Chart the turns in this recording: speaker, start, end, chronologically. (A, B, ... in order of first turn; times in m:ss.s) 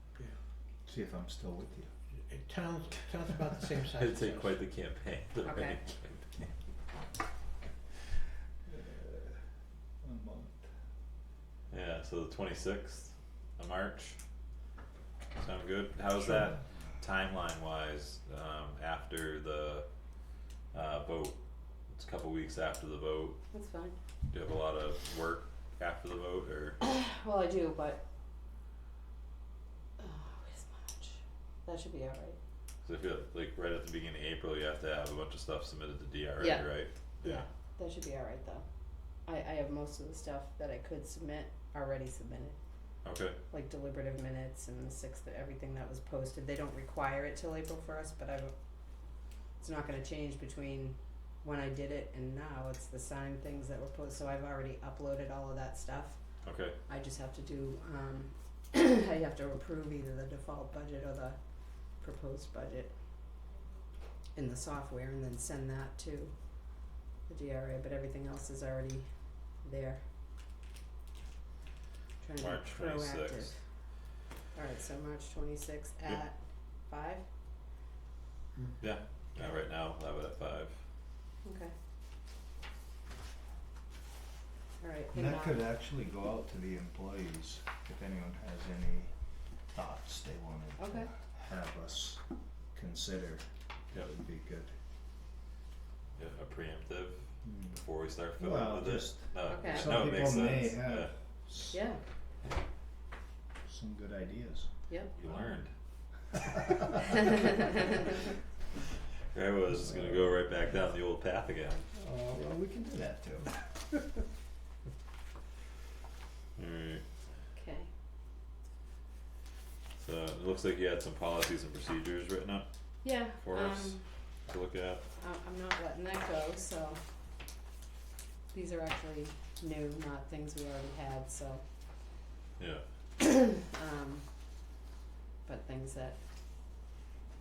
0:00.8-0:01.9 A
0:02.1-0:04.6 B
0:03.9-0:06.3 C
0:05.4-0:05.8 D
0:08.6-0:10.7 A
0:11.7-0:14.2 C
0:15.4-0:19.8 C
0:20.7-0:21.4 C
0:21.9-0:23.4 C
0:23.5-0:24.0 D
0:24.3-0:26.8 C
0:26.8-0:28.0 D
0:30.0-0:32.4 D
0:32.8-0:37.4 C
0:36.4-0:36.6 D
0:37.2-0:38.6 D
0:39.2-0:42.6 D
0:43.0-0:43.4 C
0:43.5-0:48.5 D
0:49.6-1:03.0 D
0:56.4-0:56.8 C
1:04.3-1:10.0 D
1:12.2-1:13.6 D
1:12.4-1:13.5 C
1:14.5-1:17.2 D
1:18.5-1:18.8 B
1:18.8-1:20.8 C
1:21.4-1:21.7 D
1:24.8-1:25.6 D
1:25.1-1:34.8 A
1:30.8-1:31.1 D
1:36.2-1:41.1 C
1:37.4-1:37.8 A
1:38.4-1:41.8 A
1:39.4-1:39.9 D
1:41.7-1:42.0 D
1:43.6-1:45.4 A
1:44.9-1:45.1 D
1:45.2-1:46.5 C
1:46.4-1:46.8 A
1:49.3-1:51.9 C
1:49.8-1:50.4 A
1:51.9-1:54.1 A
1:56.6-1:57.0 C
1:57.5-1:57.9 D
2:00.0-2:02.6 C
2:03.0-2:04.0 D
2:03.2-2:05.0 C
2:05.2-2:07.0 D
2:08.5-2:11.6 D
2:12.6-2:12.8 C
2:13.2-2:14.3 D
2:15.4-2:16.2 D